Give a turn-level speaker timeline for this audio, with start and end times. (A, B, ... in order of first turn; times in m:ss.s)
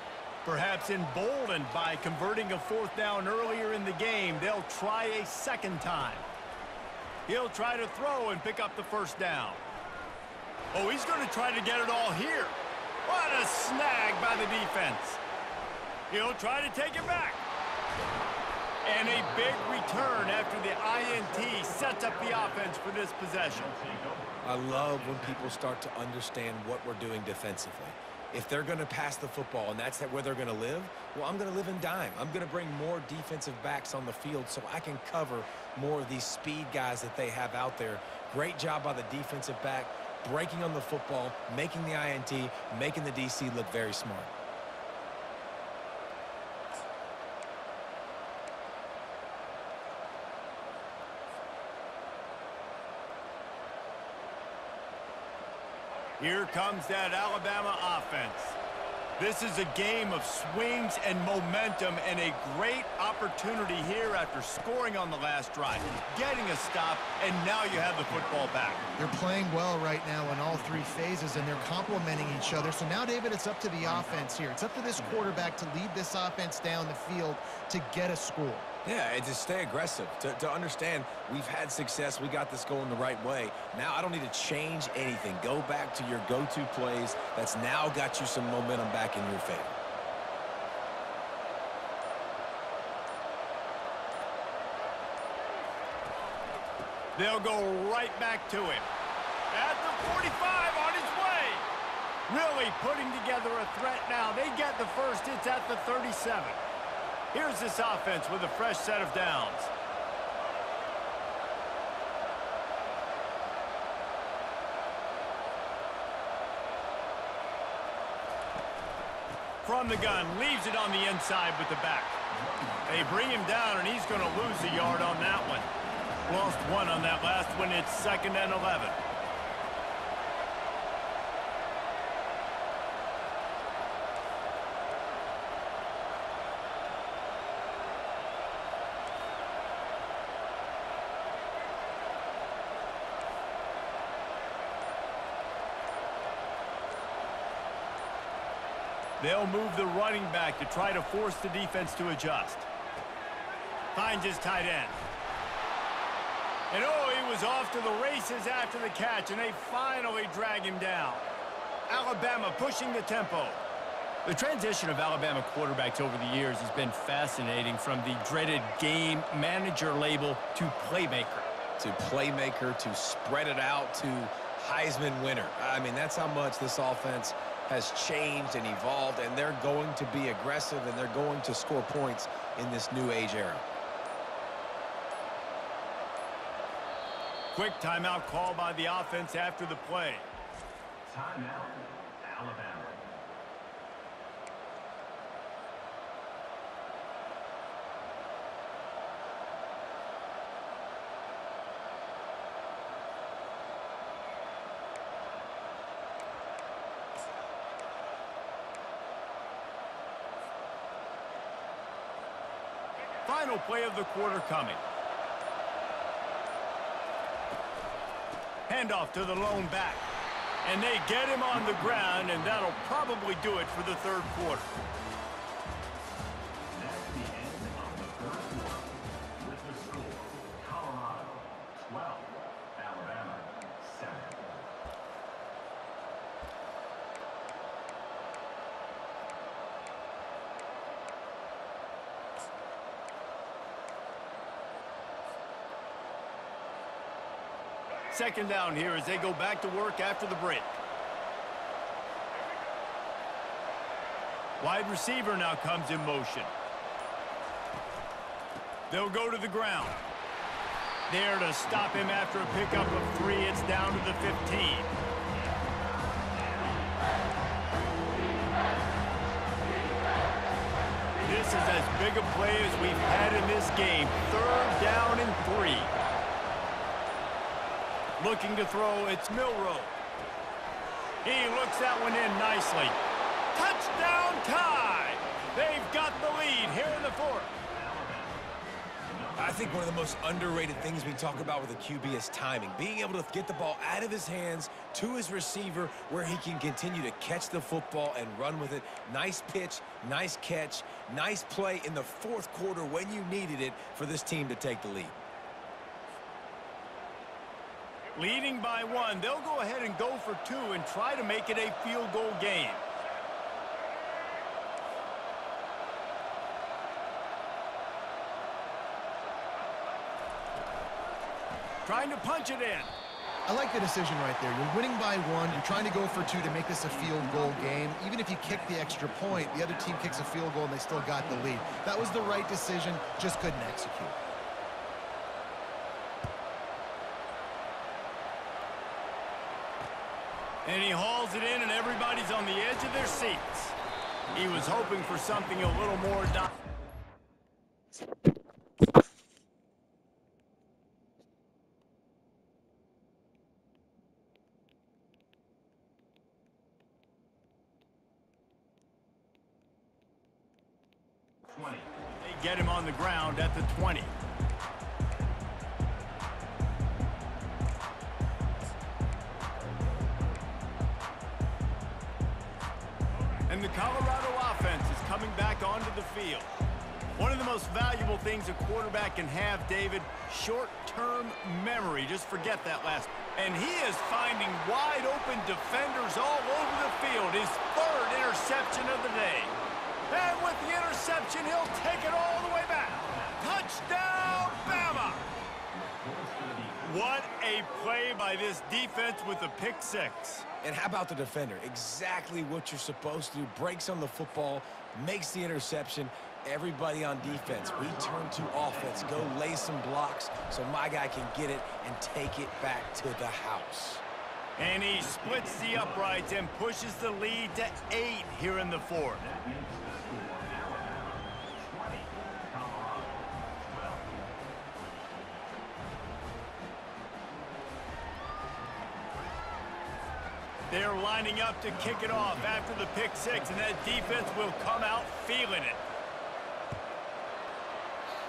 0:00.4-0:06.3 A
0:07.3-0:09.6 A
0:10.7-0:15.2 A
0:16.1-0:17.4 A
0:18.8-0:23.8 A
0:24.4-0:44.3 B
0:56.2-0:58.6 A
0:59.2-1:08.8 A
1:09.0-1:18.7 C
1:18.8-1:29.8 B
1:37.2-1:38.9 A
1:39.5-1:41.7 A
1:42.3-1:46.6 A
1:47.3-1:49.7 A
1:59.6-2:02.2 A
2:02.8-2:05.7 A
2:06.2-2:09.0 A
2:29.2-2:32.7 A
2:33.9-2:35.0 A
2:36.7-2:41.3 A
2:41.9-2:43.6 A
2:44.2-2:51.5 A
2:51.8-3:03.6 B
3:07.5-3:10.3 A
3:11.1-3:13.0 B
3:33.2-3:34.8 A
3:38.7-3:40.0 A
3:40.6-3:44.7 A
3:46.7-3:54.6 B
4:08.1-4:10.7 A
4:14.6-4:16.5 A
4:18.9-4:20.0 A
4:21.1-4:24.9 A
4:31.2-4:35.9 A
4:38.2-4:40.0 A
4:41.2-4:43.0 A
4:43.5-4:47.5 A
4:49.4-5:05.2 B
5:08.2-5:12.8 A
5:21.8-5:22.9 A
5:23.5-5:34.2 C
5:40.6-5:43.8 A
5:44.3-5:46.5 A
6:02.2-6:04.1 A
6:13.5-6:16.5 A
6:17.2-6:29.5 A
6:30.1-6:35.2 A
6:36.8-6:40.5 A
6:40.6-6:54.0 B
6:54.6-6:59.3 A
6:59.6-7:01.2 B
7:01.7-7:02.0 B
7:10.7-7:15.8 A